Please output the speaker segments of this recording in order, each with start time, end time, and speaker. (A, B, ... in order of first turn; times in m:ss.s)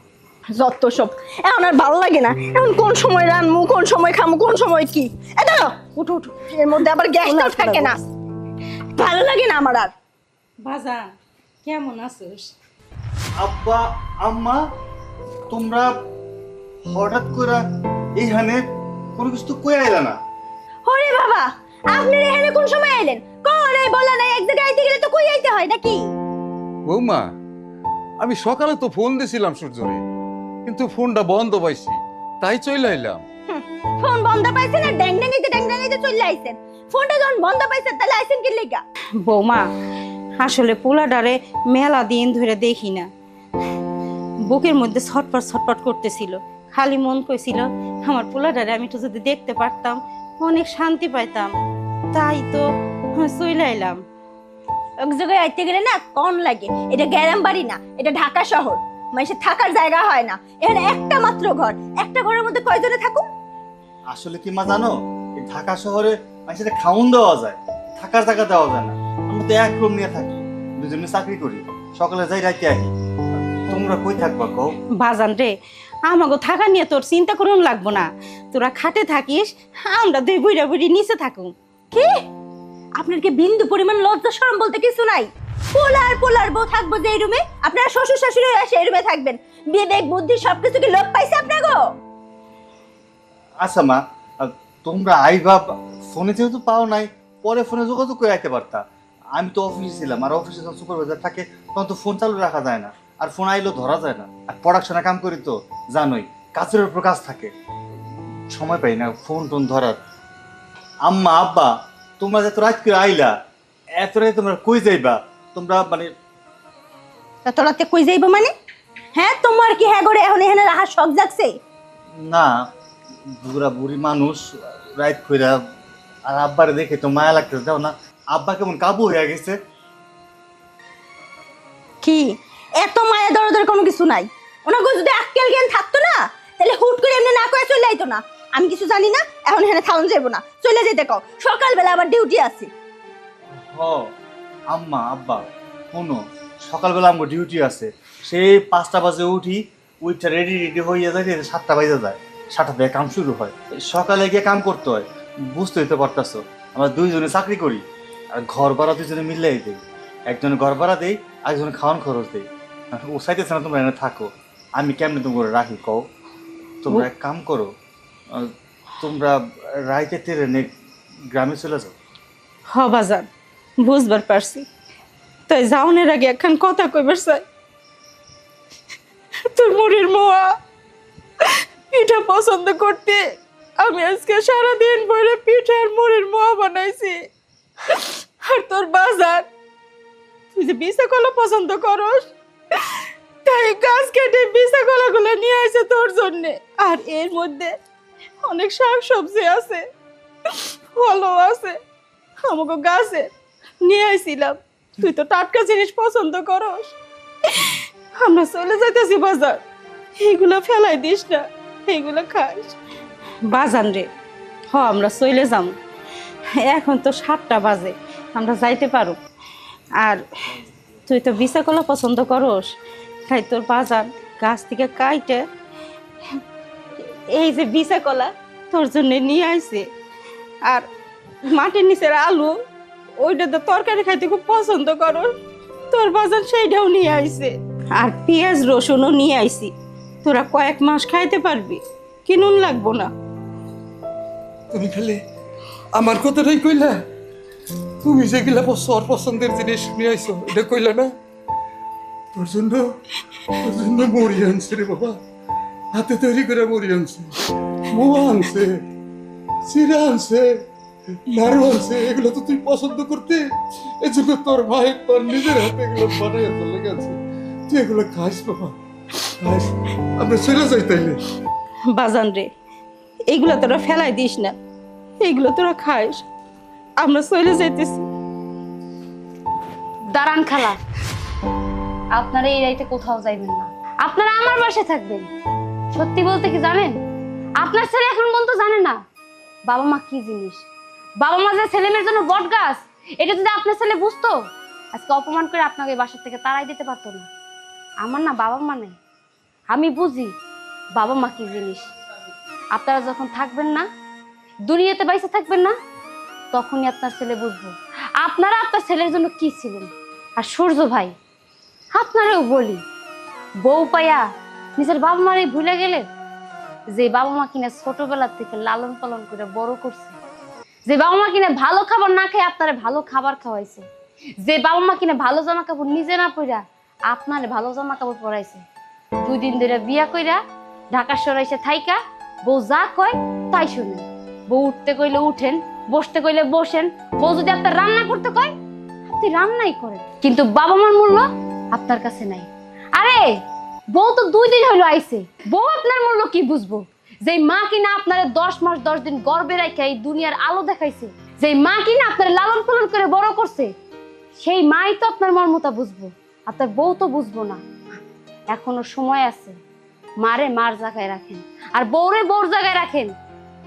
0:00.5-0:08.0 A
0:07.2-0:08.0 B
0:08.9-0:09.9 A
0:10.6-0:11.1 B
0:11.6-0:12.5 B
0:13.4-0:14.6 C
0:15.5-0:15.9 C
0:16.9-0:17.6 C
0:18.2-0:18.6 C
0:19.2-0:20.2 C
0:20.8-0:26.0 A
0:26.8-0:27.3 D
0:28.2-0:30.0 D
0:30.6-0:33.2 D
0:33.5-0:38.8 A
0:39.2-0:39.6 B
0:40.4-0:43.1 B
0:44.5-0:51.5 B
0:52.1-0:52.6 B
0:53.2-0:54.0 B
0:55.0-1:03.2 A
1:04.1-1:12.9 C
1:13.7-1:14.7 C
1:15.0-1:15.5 B
1:16.1-1:21.5 B
1:23.0-1:31.8 A
1:33.6-1:38.8 C
1:39.4-1:47.5 C
1:48.5-1:50.0 C
1:51.0-1:53.3 C
1:54.0-1:56.1 C
1:57.4-1:58.5 A
1:59.1-2:01.5 A
2:02.3-2:02.6 C
2:03.4-2:04.4 C
2:05.0-2:05.6 C
2:06.3-2:09.6 C
2:12.8-2:22.7 A
2:23.6-2:24.0 C
2:24.7-2:25.4 C
2:25.9-2:37.8 C
2:38.3-2:42.4 C
2:43.0-2:46.0 C
2:46.8-2:47.7 C
2:49.0-2:50.7 C
2:51.3-2:51.9 C
2:52.7-2:53.3 B
2:53.8-2:54.6 B
2:55.5-2:57.4 B
2:59.5-3:00.5 B
3:01.9-3:03.2 B
3:03.8-3:07.3 B
3:07.9-3:09.5 B
3:10.5-3:12.3 B
3:13.4-3:17.8 B
3:18.4-3:19.8 B
3:20.5-3:21.8 B
3:22.4-3:23.3 B
3:23.8-3:26.9 B
3:27.5-3:29.6 B
3:30.2-3:32.8 B
3:33.5-3:34.1 B
3:34.7-3:35.7 B
3:36.6-3:39.2 B
3:41.1-3:42.7 B
3:43.3-3:45.4 B
3:47.0-3:49.9 B
3:51.5-3:52.6 B
3:53.2-3:55.3 B
3:55.9-3:59.7 B
4:00.2-4:03.1 B
4:04.7-4:05.2 D
4:05.9-4:07.0 D
4:08.0-4:11.1 D
4:12.3-4:12.9 D
4:13.4-4:15.2 D
4:15.9-4:18.7 D
4:19.7-4:20.5 D
4:21.2-4:23.4 D
4:24.0-4:27.2 D
4:27.7-4:28.8 D
4:29.4-4:31.2 D
4:31.9-4:32.5 B
4:33.3-4:34.6 B
4:35.2-4:36.2 B
4:37.0-4:38.1 B
4:40.1-4:40.8 E
4:42.1-4:45.3 E
4:45.9-4:46.9 E
4:47.6-4:49.0 E
4:49.7-4:50.6 E
4:51.2-4:54.4 E
4:54.9-4:57.2 E
4:58.0-4:59.0 E
4:59.7-5:00.3 E
5:01.0-5:01.9 E
5:02.7-5:03.8 E
5:04.6-5:05.7 E
5:06.5-5:11.1 E
5:11.9-5:12.8 E
5:13.6-5:14.2 E
5:14.8-5:16.0 E
5:16.9-5:20.1 E
5:20.8-5:23.8 E
5:24.4-5:28.6 E
5:29.2-5:30.4 E
5:30.9-5:38.5 E
5:39.1-5:43.3 E
5:43.9-5:53.7 E
5:54.4-5:57.6 E
5:58.5-5:59.6 E
6:00.2-6:03.1 E